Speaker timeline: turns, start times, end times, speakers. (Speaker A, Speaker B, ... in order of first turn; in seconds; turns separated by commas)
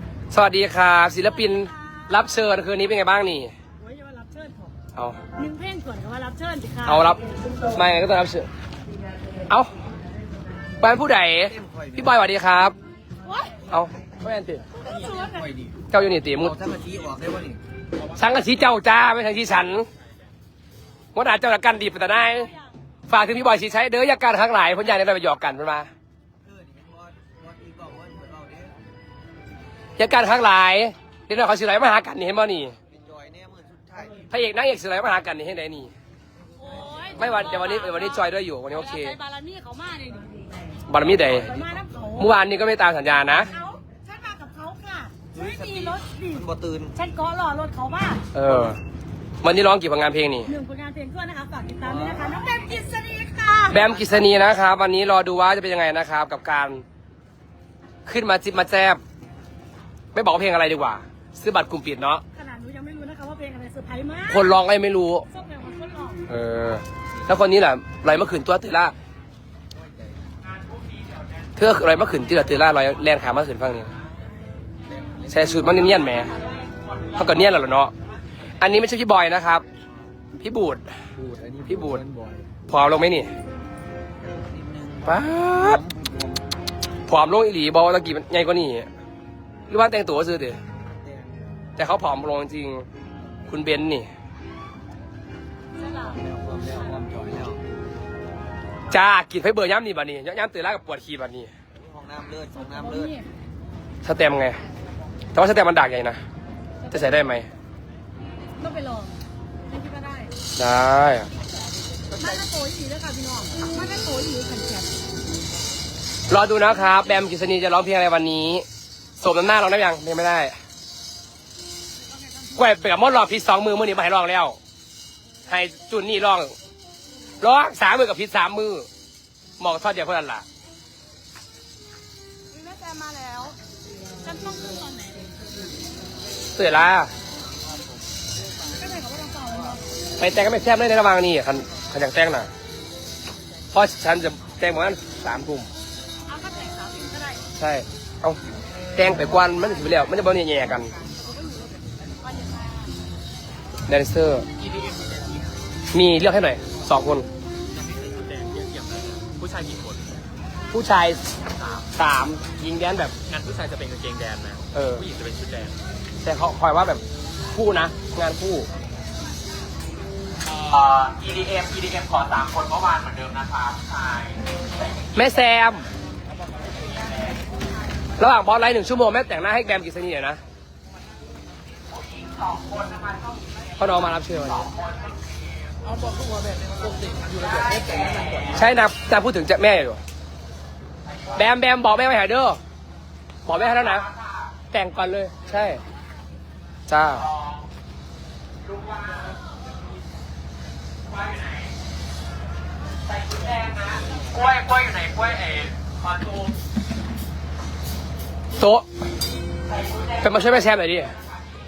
Speaker A: 0.3-3.5, Speaker B: 3.8-4.7, Speaker B: 5.3-7.0, Speaker A: 6.8-7.2, Speaker A: 7.7-8.5, Speaker A: 10.8-12.7, Speaker C: 11.5-12.1, Speaker A: 13.7-14.6, Speaker C: 14.9-15.7, Speaker A: 15.9-16.6, Speaker C: 16.4-17.6, Speaker A: 18.1-19.9, Speaker A: 21.1-22.5, Speaker A: 23.1-25.9, Speaker C: 26.4-28.7, Speaker A: 30.0-32.8, Speaker C: 32.9-34.2, Speaker A: 34.3-35.9, Speaker B: 36.7-37.2, Speaker A: 37.1-39.2, Speaker B: 38.8-40.5, Speaker A: 40.9-41.5, Speaker C: 41.1-42.2, Speaker B: 41.6-42.1, Speaker A: 42.2-43.5, Speaker B: 43.5-46.4, Speaker C: 45.3-47.0, Speaker B: 47.0-48.2, Speaker A: 48.3-48.8, Speaker A: 49.4-50.5, Speaker B: 50.5-53.7, Speaker C: 51.8-52.4, Speaker A: 53.7-56.8, Speaker A: 58.0-59.0, Speaker A: 60.1-62.2, Speaker B: 62.3-64.3, Speaker A: 64.3-65.3, Speaker B: 65.3-66.2, Speaker A: 66.3-68.9, Speaker C: 69.8-70.2, Speaker A: 71.5-73.9, Speaker C: 74.9-75.6, Speaker A: 75.3-76.3, Speaker A: 77.1-77.9, Speaker A: 78.6-79.6, Speaker A: 80.4-80.9, Speaker C: 81.2-82.5, Speaker A: 81.7-82.0, Speaker A: 82.7-83.3, Speaker C: 84.2-86.4, Speaker A: 85.0-85.8, Speaker A: 87.1-88.9, Speaker A: 89.7-90.6, Speaker C: 91.0-91.4, Speaker A: 91.8-92.8, Speaker A: 93.5-94.1, Speaker C: 95.9-97.6, Speaker A: 98.9-101.5, Speaker C: 101.7-103.1, Speaker B: 102.7-103.2, Speaker A: 104.0-104.6, Speaker A: 105.3-106.2, Speaker A: 106.9-107.5, Speaker B: 108.6-109.1, Speaker B: 109.7-110.3, Speaker A: 110.6-111.3, Speaker B: 112.2-115.0, Speaker C: 112.2-112.5, Speaker A: 116.3-118.6, Speaker A: 119.2-120.5, Speaker A: 122.5-124.6, Speaker A: 125.5-126.5, Speaker A: 127.4-128.9, Speaker A: 129.6-130.4, Speaker B: 132.5-133.6, Speaker B: 134.2-135.3, Speaker A: 136.5-137.1, Speaker B: 138.7-139.8, Speaker A: 140.2-142.5, Speaker A: 143.7-145.7, Speaker B: 146.3-147.4, Speaker A: 147.6-148.4, Speaker A: 148.9-150.9, Speaker B: 152.3-152.8, Speaker A: 153.9-154.4, Speaker A: 155.9-157.3, Speaker D: 157.7-160.1, Speaker A: 160.7-161.2, Speaker D: 161.6-161.9, Speaker A: 161.9-163.1, Speaker D: 163.3-165.8, Speaker A: 164.7-165.0, Speaker A: 166.2-168.7, Speaker D: 170.4-174.4, Speaker A: 175.1-175.8, Speaker A: 178.2-180.4, Speaker D: 182.2-183.4, Speaker A: 183.8-184.7, Speaker C: 186.1-187.4, Speaker D: 187.4-188.5, Speaker A: 188.5-190.0, Speaker A: 191.3-192.6, Speaker A: 193.4-194.1, Speaker A: 194.7-195.8, Speaker A: 196.9-197.3, Speaker D: 197.2-197.7, Speaker D: 198.6-199.4, Speaker D: 201.1-201.8, Speaker D: 203.1-206.5, Speaker A: 208.6-208.8, Speaker A: 210.2-211.1